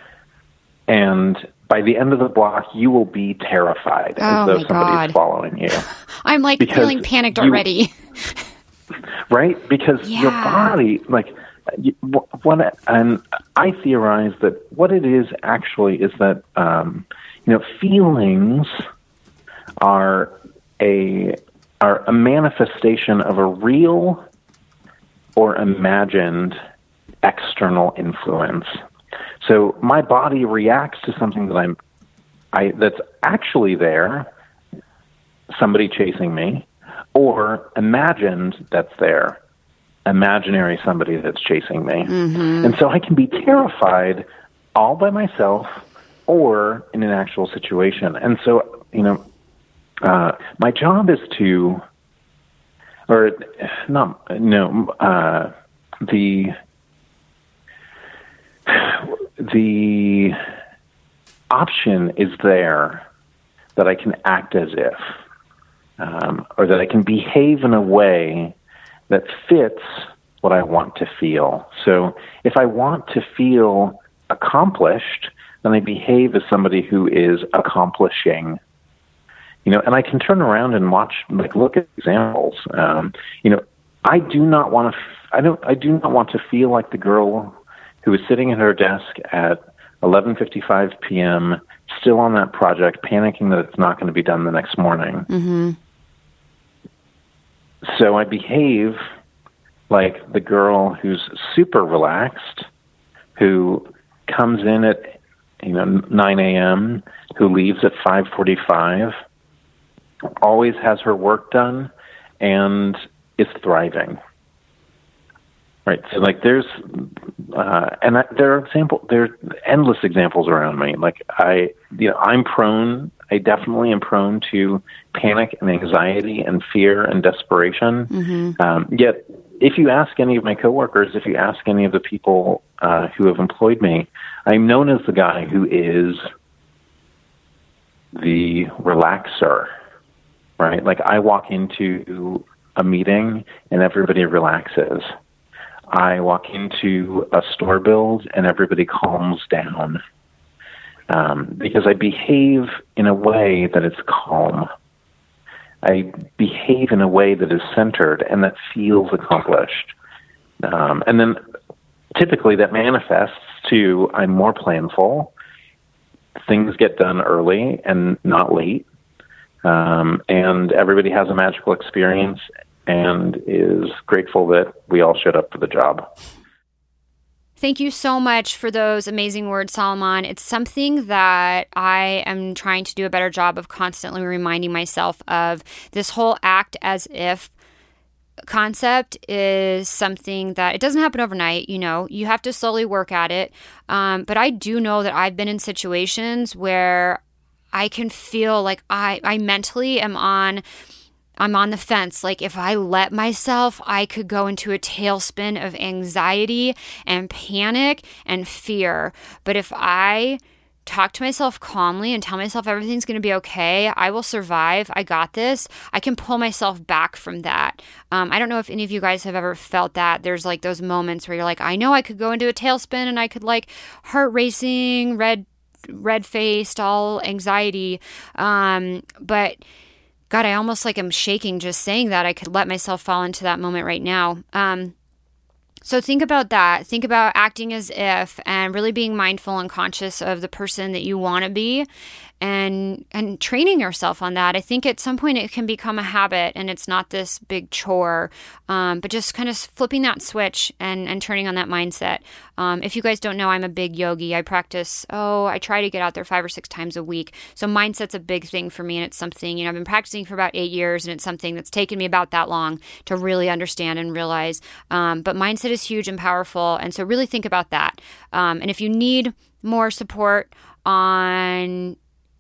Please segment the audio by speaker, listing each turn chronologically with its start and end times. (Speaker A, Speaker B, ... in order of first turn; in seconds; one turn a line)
Speaker A: 0.9-5.8
Speaker B: 4.2-5.2
Speaker B: 6.2-7.9
Speaker A: 6.6-7.7
Speaker A: 9.3-18.7
Speaker B: 10.0-10.8
Speaker A: 19.8-24.2
Speaker A: 25.4-26.6
Speaker A: 27.2-28.7
Speaker A: 29.4-31.8
Speaker A: 32.5-34.3
Speaker A: 35.6-39.4
Speaker A: 40.1-49.2
Speaker B: 42.1-42.7
Speaker A: 50.0-51.8
Speaker A: 53.1-55.5
Speaker A: 56.1-56.5
Speaker A: 58.7-60.4
Speaker A: 61.5-63.0
Speaker A: 63.8-65.0
Speaker A: 66.0-68.5
Speaker A: 69.1-78.6
Speaker A: 79.7-95.3
Speaker B: 95.3-95.8
Speaker A: 97.9-99.0
Speaker A: 99.9-102.7
Speaker A: 103.4-109.1
Speaker A: 110.4-114.2
Speaker A: 115.9-136.2
Speaker B: 128.1-128.6
Speaker A: 138.1-139.7
Speaker A: 140.6-145.1
Speaker A: 145.9-150.0
Speaker A: 151.1-154.7
Speaker A: 155.8-159.9
Speaker A: 160.6-161.4
Speaker A: 162.1-165.3
Speaker A: 166.5-168.8
Speaker A: 169.6-176.1
Speaker B: 177.6-187.5
Speaker B: 188.5-197.2
Speaker B: 197.7-200.6
Speaker B: 201.4-229.6
Speaker B: 230.3-234.9
Speaker B: 235.8-241.9
Speaker B: 242.4-272.0